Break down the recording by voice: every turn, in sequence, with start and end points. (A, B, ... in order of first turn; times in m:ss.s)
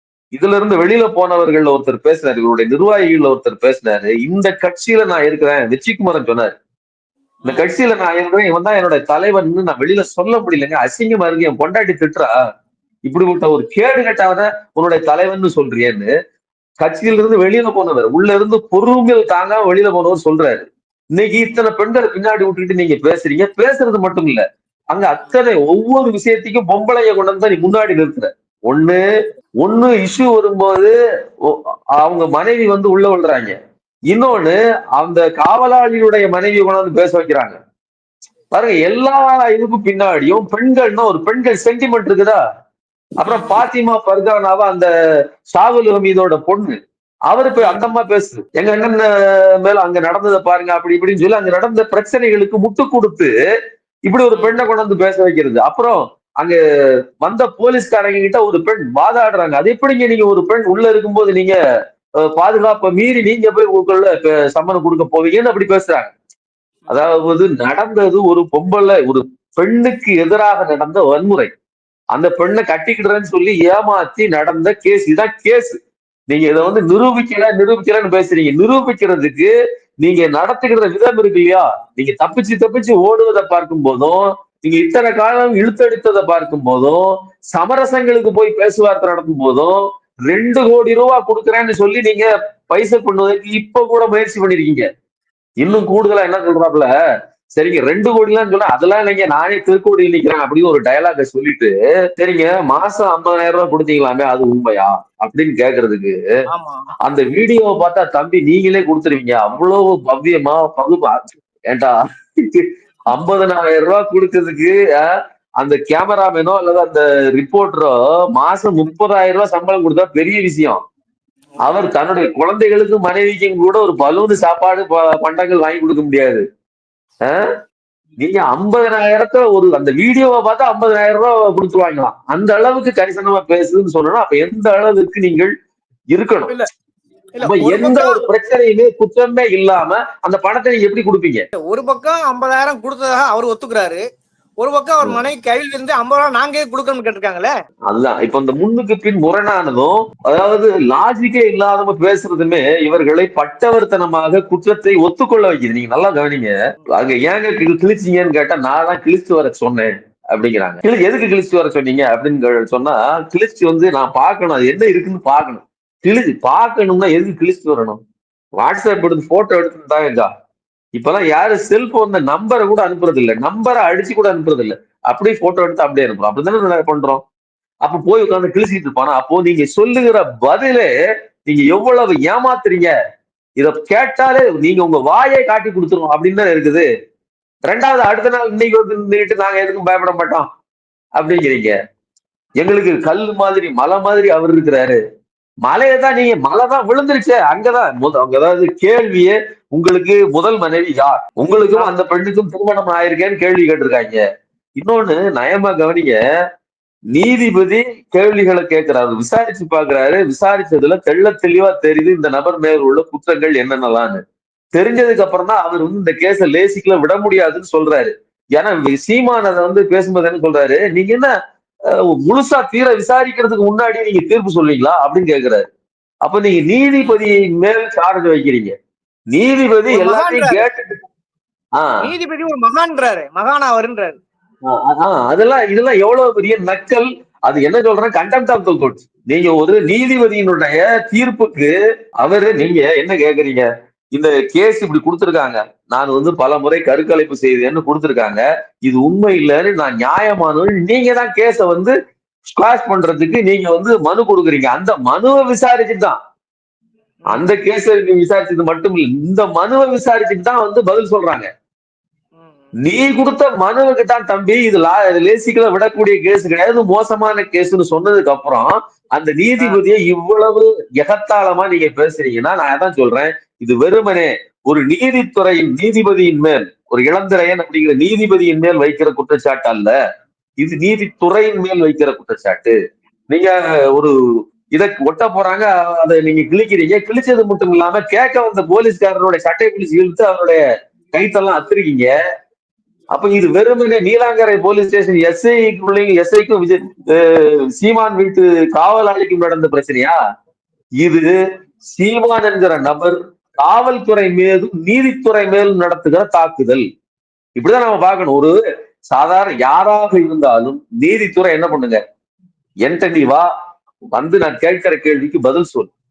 0:00.3-0:06.5 A
0:07.5-0:12.3 A
0:13.1-0:16.1 A
0:16.8-0:29.0 A
0:29.6-0:30.9 A
0:31.5-0:33.6 A
0:34.1-0:37.6 A
0:38.5-0:42.4 A
0:43.2-0:44.9 A
0:43.3-0:43.6 B
0:45.5-0:46.8 A
0:47.3-0:49.1 A
0:47.6-0:47.8 B
0:49.6-0:53.3 A
0:54.1-0:56.6 A
0:57.2-1:01.6 A
1:02.3-1:06.1 A
1:06.9-1:11.5 A
1:12.1-1:15.8 A
1:16.3-1:19.5 A
1:20.0-1:29.8 A
1:30.3-1:34.8 A
1:35.6-1:36.9 A
1:37.6-1:46.2 A
1:46.5-1:46.9 B
1:47.0-1:51.2 A
1:51.7-1:55.1 A
1:55.6-2:00.8 A
2:01.6-2:06.4 A
2:08.2-2:15.5 A
2:16.1-2:16.6 A
2:17.4-2:18.2 B
2:17.4-2:21.4 A
2:21.6-2:24.0 B
2:24.6-2:27.5 B
2:27.9-2:48.0 A
2:48.6-2:50.3 A
2:51.0-2:57.2 A
2:57.8-3:00.9 A
3:01.5-3:02.9 A
3:03.6-3:06.9 A
3:07.7-3:10.5 A
3:11.2-3:11.8 A
3:12.6-3:15.0 A
3:15.7-3:24.2 A
3:24.8-3:26.2 A
3:27.1-3:34.2 A
3:34.7-3:41.3 A
3:42.1-3:45.6 A
3:46.2-3:48.7 A
3:49.3-3:51.0 A
3:49.9-3:50.6 B
3:52.0-3:54.2 B
3:54.7-4:11.9 A
4:12.5-4:16.2 A
4:17.3-4:21.5 A
4:22.4-4:22.7 B
4:22.8-4:39.9 A
4:40.6-4:42.8 A
4:43.3-4:44.1 A
4:44.7-4:50.6 A
4:51.1-4:52.1 A
4:53.1-5:00.2 A
5:01.0-5:01.4 A
5:01.9-5:06.8 A
5:07.6-5:08.6 A
5:09.1-5:12.0 A
5:12.8-5:13.5 A
5:14.2-5:15.9 A